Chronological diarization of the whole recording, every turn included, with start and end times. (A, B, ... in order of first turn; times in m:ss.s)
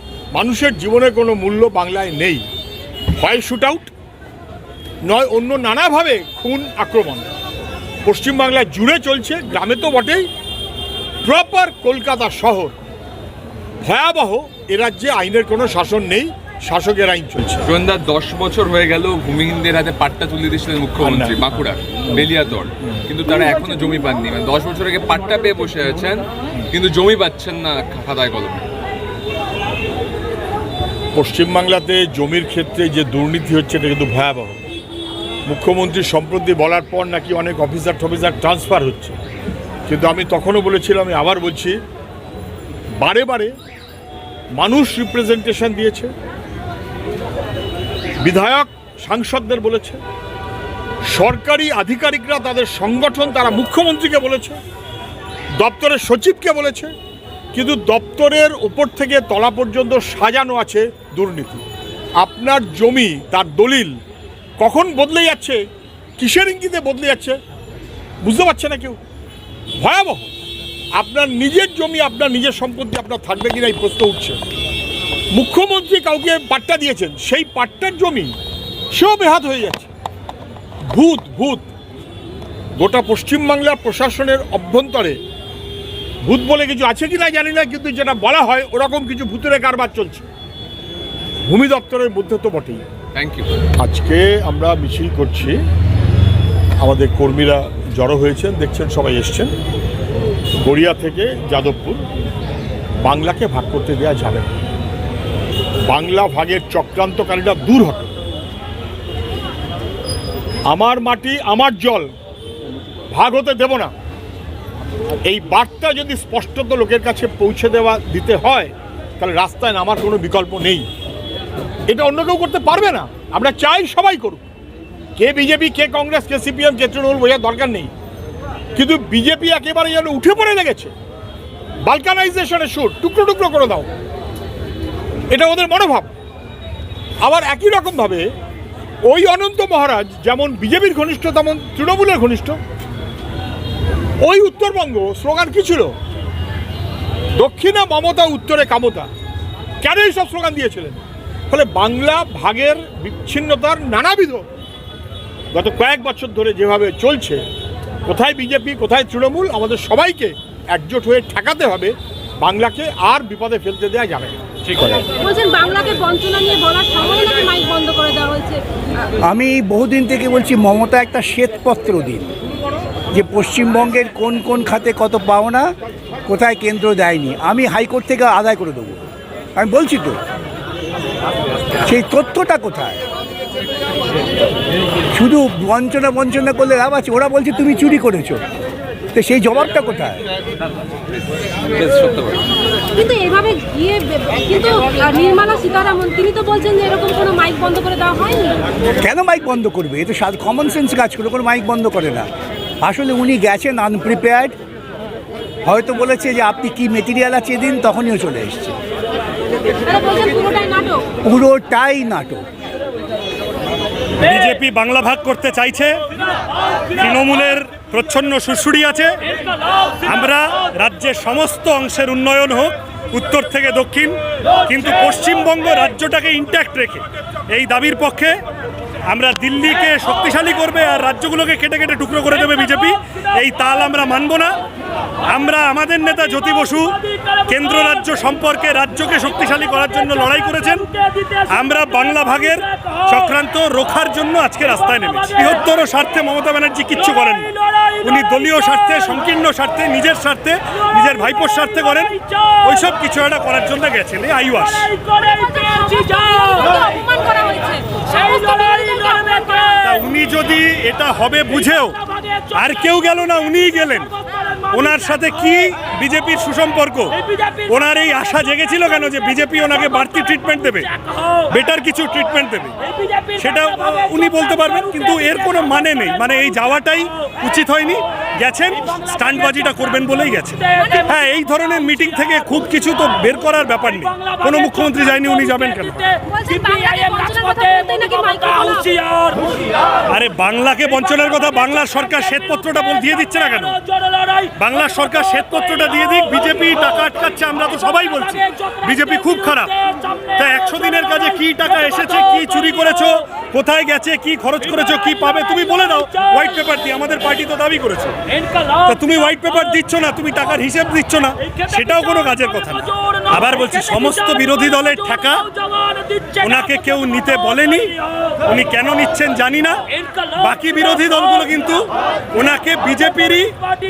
0:00.3-0:02.4 A
0:03.2-0:03.9 A
0:05.1-0:07.3 A
0:08.0-0:10.3 A
0:11.2-0:12.8 A
0:13.8-0:17.7 A
0:17.7-0:28.6 B
0:21.0-0:21.4 A
0:31.1-0:34.6 A
0:35.5-0:39.1 A
0:39.9-0:41.8 A
0:43.0-0:43.5 A
0:44.5-0:46.1 A
0:48.2-0:50.0 A
0:51.1-0:54.6 A
0:55.6-0:56.9 A
0:57.5-1:01.6 A
1:02.2-1:04.0 A
1:04.6-1:05.6 A
1:06.2-1:07.4 A
1:08.2-1:09.0 A
1:09.8-1:10.3 A
1:11.0-1:14.4 A
1:15.3-1:18.3 A
1:18.9-1:19.9 A
1:20.9-1:21.7 A
1:22.8-1:25.2 A
1:26.2-1:30.3 A
1:31.5-1:32.8 A
1:33.1-1:33.6 B
1:33.8-1:35.6 A
1:36.8-1:39.5 A
1:40.6-1:42.0 A
1:43.0-1:44.6 A
1:45.8-1:48.1 A
1:50.7-1:52.1 A
1:53.1-1:53.9 A
1:55.2-2:00.8 A
2:01.9-2:04.4 A
2:05.2-2:07.9 A
2:08.7-2:10.9 A
2:11.8-2:13.9 A
2:15.3-2:16.1 A
2:17.2-2:18.3 A
2:19.1-2:22.6 A
2:24.2-2:25.9 A
2:27.3-2:29.1 A
2:29.8-2:34.5 A
2:35.5-2:37.4 A
2:38.0-2:45.1 A
2:45.2-2:48.6 C
2:49.2-2:52.3 D
2:53.1-2:55.7 D
2:56.2-2:59.0 D
2:59.6-3:00.2 D
3:01.8-3:03.0 D
3:05.1-3:08.4 D
3:09.1-3:10.2 D
3:11.6-3:12.4 B
3:12.9-3:18.6 C
3:19.0-3:22.3 D
3:22.8-3:24.5 D
3:25.6-3:28.8 D
3:29.8-3:31.0 C
3:31.2-3:32.4 D
3:34.2-3:36.0 E
3:36.9-3:39.2 E
3:40.0-3:48.3 E
3:49.1-3:54.6 E
3:55.3-4:15.0 E
4:15.2-4:19.8 C
4:19.8-4:22.0 E
4:22.5-4:24.2 E
4:24.7-4:30.9 E
4:31.5-4:32.7 E
4:33.3-4:46.2 E
4:46.2-4:49.0 C
4:50.1-4:53.8 E
4:54.6-5:08.2 E
5:08.8-5:15.5 E
5:16.3-5:23.6 E